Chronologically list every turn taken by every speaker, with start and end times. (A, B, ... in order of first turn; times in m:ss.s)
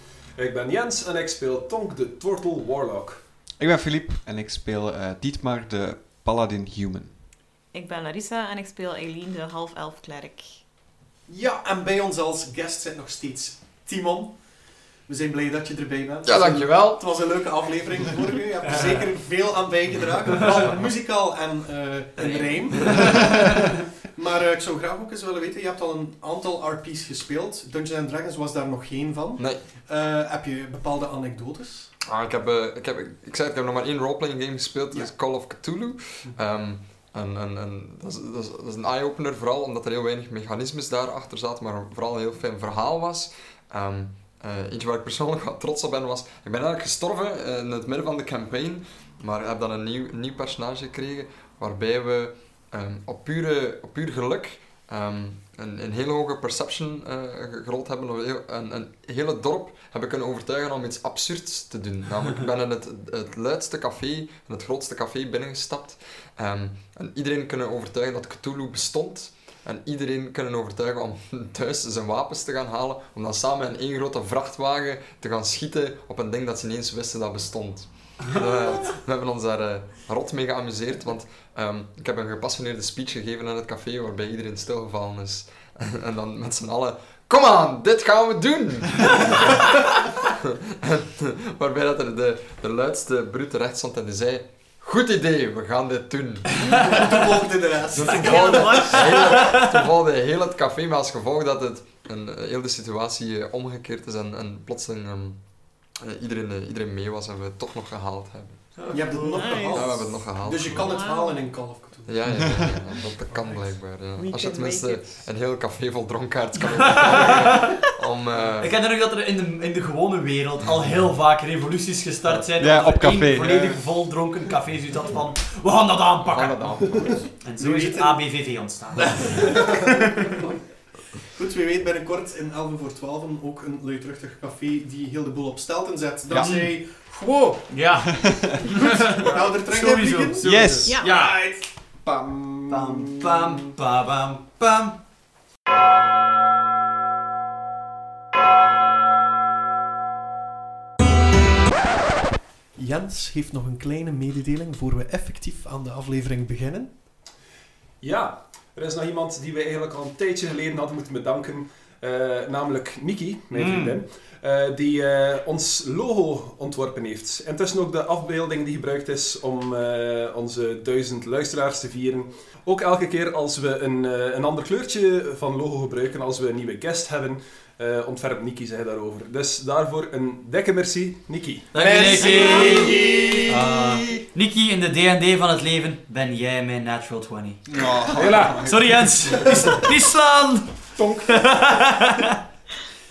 0:00.4-0:03.2 A
0:03.6-0:07.1 B
0:07.7-0:10.5 C
0:11.3-0:14.4 D
0:15.0-0:31.9 D
0:16.2-0:17.0 E
0:22.2-0:23.4 F
0:32.1-1:29.8 E
1:30.4-1:36.6 E
1:36.6-1:39.3 D
1:37.9-1:48.7 E
1:38.0-1:39.3 C
1:48.8-1:49.6 F
1:48.9-1:53.8 D
1:49.3-1:50.1 C
1:49.7-1:50.9 E
1:50.7-1:51.5 C
1:52.0-1:58.7 E
1:54.1-1:55.2 C
1:57.0-1:57.7 F
1:58.6-2:09.7 F
2:02.6-2:03.8 B
2:06.2-2:07.3 E
2:07.6-2:08.2 D
2:09.0-2:10.5 D
2:11.3-2:17.7 D
2:16.4-2:16.7 F
2:17.7-2:21.4 F
2:18.1-2:18.7 B
2:19.1-2:21.6 D
2:20.4-2:20.9 B
2:20.8-2:21.3 C
2:22.7-2:25.0 F
2:32.8-2:36.9 D
2:38.0-3:01.7 A
2:43.5-2:44.0 F
3:01.7-3:10.7 F
3:01.8-3:04.2 D
3:07.7-3:09.0 B
3:08.1-3:08.7 A
3:11.2-3:12.3 F